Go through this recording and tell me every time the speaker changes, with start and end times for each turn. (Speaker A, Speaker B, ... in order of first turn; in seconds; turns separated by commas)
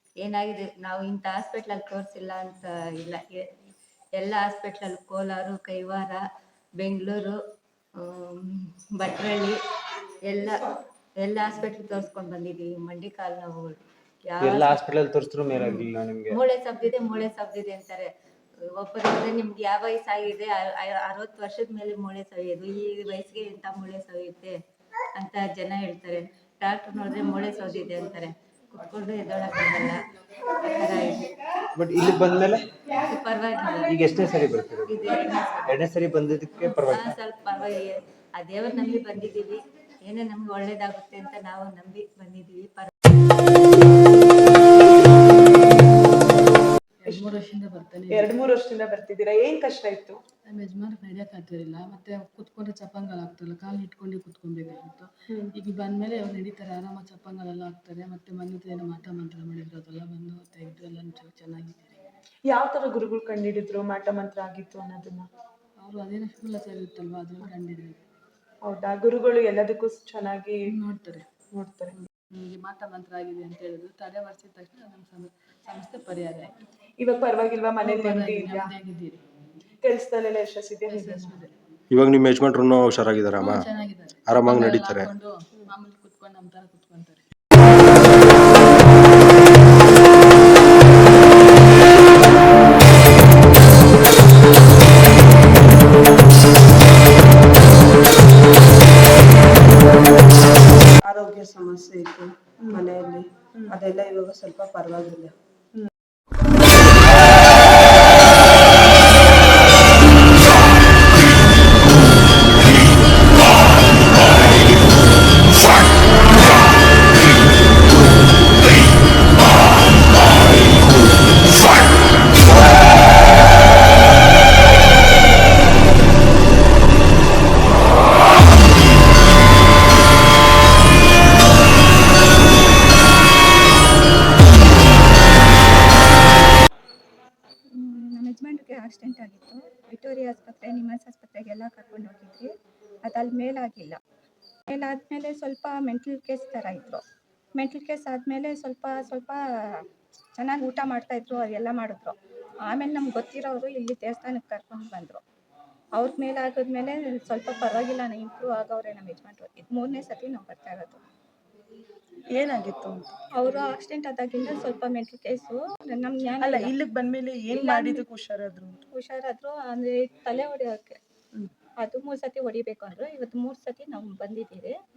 Speaker A: 0.2-6.2, Speaker A: 6.8-7.4, Speaker A: 8.0-9.6, Speaker A: 10.3-10.6, Speaker A: 11.2-14.9, Speaker B: 14.4-16.4, Speaker A: 16.3-18.1, Speaker A: 18.8-24.6, Speaker A: 25.1-31.3, Speaker B: 31.8-32.6, Speaker A: 32.9-34.3, Speaker B: 33.9-35.0, Speaker A: 34.8-35.8, Speaker B: 35.7-37.1, Speaker A: 36.6-43.1, Speaker C: 47.0-48.4, Speaker D: 48.1-50.2, Speaker C: 50.5-62.0, Speaker D: 62.5-65.3, Speaker C: 65.8-68.0, Speaker D: 68.6-70.6, Speaker C: 70.7-71.2, Speaker D: 71.5-71.9, Speaker C: 72.1-76.5, Speaker D: 77.0-78.7, Speaker C: 77.8-79.2, Speaker D: 79.8-81.3, Speaker C: 80.9-81.5, Speaker E: 81.9-83.7, Speaker C: 83.4-87.2, Speaker E: 84.3-85.1, Speaker F: 101.0-105.3, Speaker G: 137.8-142.5, Speaker G: 143.1-144.0, Speaker G: 144.7-147.0, Speaker G: 147.5-149.8, Speaker G: 150.4-152.1, Speaker G: 152.7-155.2, Speaker G: 155.9-161.0, Speaker D: 162.3-163.2, Speaker G: 163.3-166.7, Speaker D: 166.4-168.8, Speaker G: 167.5-168.0, Speaker G: 168.9-171.0, Speaker G: 171.8-174.7